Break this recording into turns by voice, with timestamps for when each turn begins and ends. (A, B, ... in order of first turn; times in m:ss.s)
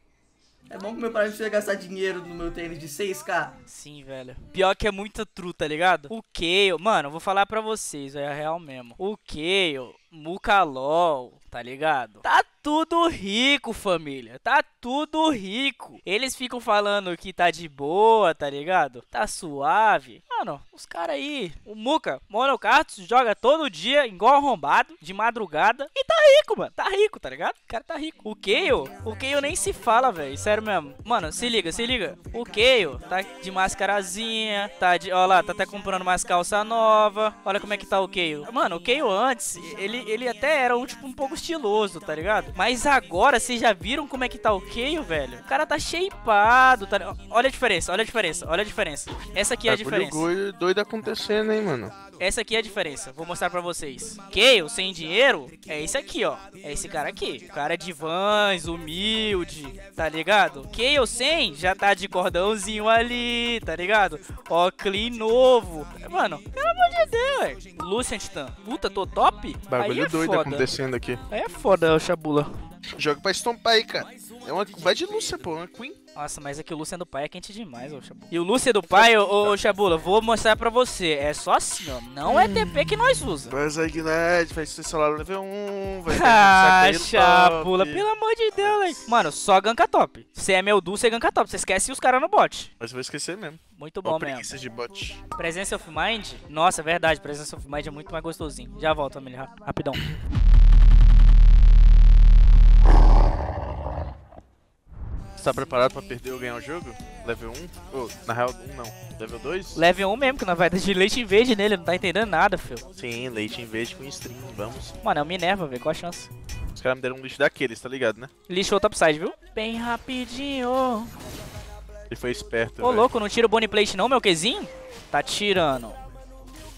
0:00.7-0:03.6 A
0:03.7-0:50.3 B
0:49.7-0:52.0 C
0:52.2-1:10.7 B
1:09.7-1:11.2 C
1:11.3-1:12.5 B
1:13.0-1:16.0 C
1:16.2-1:23.6 B
1:18.9-1:19.6 C
1:22.3-1:28.1 C
1:26.1-1:32.7 B
1:28.6-1:29.0 C
1:32.8-1:35.2 C
1:33.8-1:34.5 B
1:35.4-1:40.1 B
1:45.4-1:49.8 C
1:49.8-1:52.8 B
1:53.0-1:55.0 C
1:55.0-1:56.3 B
1:56.8-1:58.3 C
1:58.5-2:01.1 B
2:02.1-2:03.1 C
2:02.8-2:06.0 B